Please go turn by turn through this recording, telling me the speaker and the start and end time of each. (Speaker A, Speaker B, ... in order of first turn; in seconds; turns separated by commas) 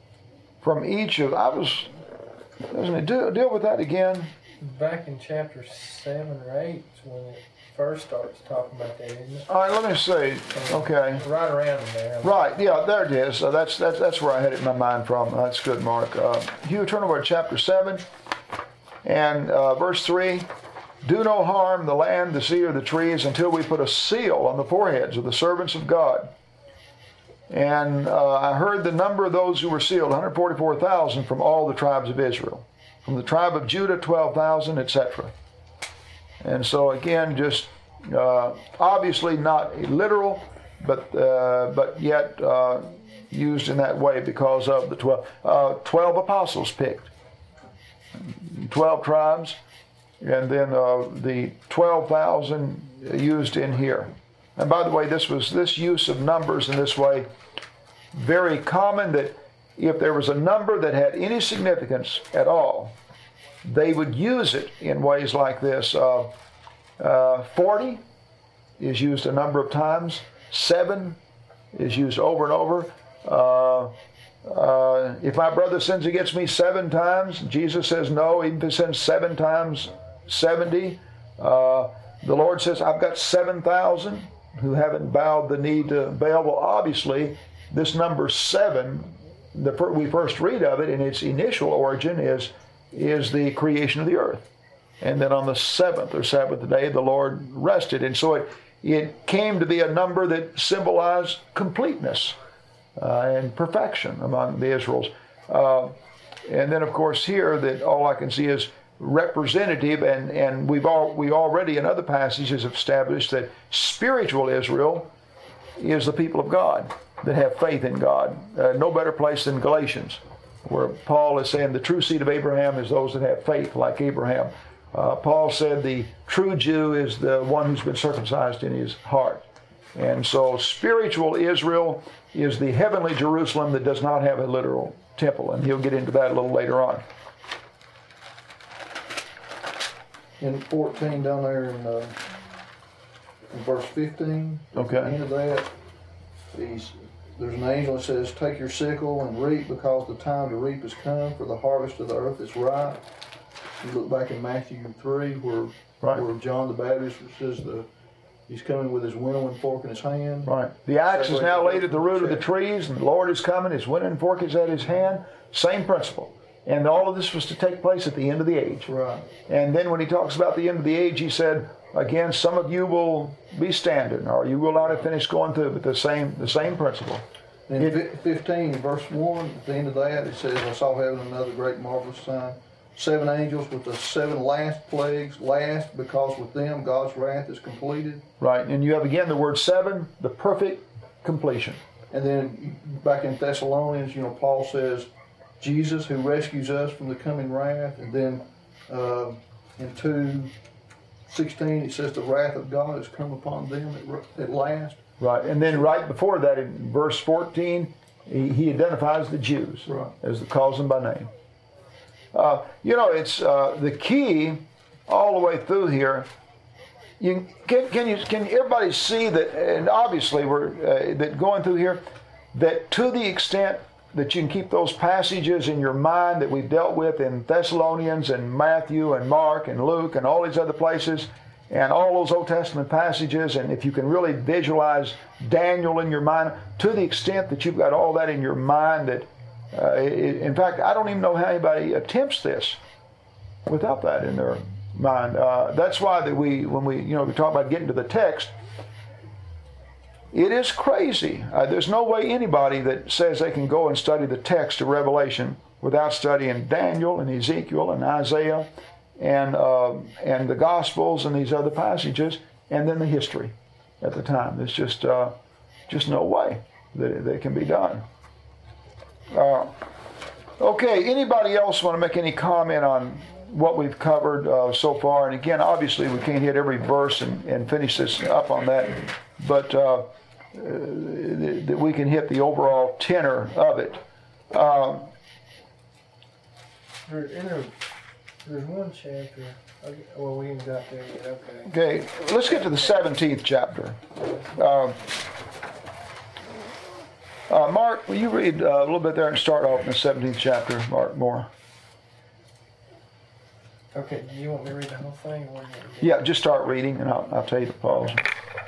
Speaker A: 0.6-1.9, Speaker A: 2.7-4.3, Speaker B: 4.6-9.4, Speaker A: 9.5-11.2, Speaker B: 10.5-12.4, Speaker A: 12.2-18.0, Speaker A: 19.0-20.5, Speaker A: 21.0-26.3, Speaker A: 27.5-35.3, Speaker A: 36.4-47.1, Speaker A: 48.2-49.6, Speaker A: 50.2-57.3, Speaker A: 58.1-62.9, Speaker A: 63.6-66.3, Speaker A: 67.0-68.0, Speaker A: 68.8-71.2, Speaker A: 71.7-94.5, Speaker A: 95.0-102.3, Speaker A: 103.0-105.9, Speaker A: 106.5-115.1, Speaker A: 115.8-137.0, Speaker C: 140.4-142.2, Speaker C: 143.5-145.7, Speaker A: 144.7-145.2, Speaker C: 146.5-153.0, Speaker C: 153.8-157.9, Speaker C: 158.5-160.5, Speaker A: 160.4-168.9, Speaker C: 161.1-162.4, Speaker C: 168.8-169.3, Speaker A: 169.5-177.2, Speaker C: 177.7-188.2, Speaker A: 188.4-191.8, Speaker C: 192.1-200.5, Speaker C: 201.3-205.0, Speaker A: 205.2-211.3, Speaker A: 212.3-216.3, Speaker A: 217.2-242.8, Speaker A: 243.7-248.5, Speaker A: 250.3-265.4, Speaker A: 265.9-268.0, Speaker A: 269.3-269.8, Speaker A: 270.6-285.1, Speaker B: 287.0-287.8, Speaker B: 288.4-291.7, Speaker A: 291.6-295.2, Speaker A: 297.5-301.5, Speaker B: 303.9-306.2, Speaker A: 306.0-308.2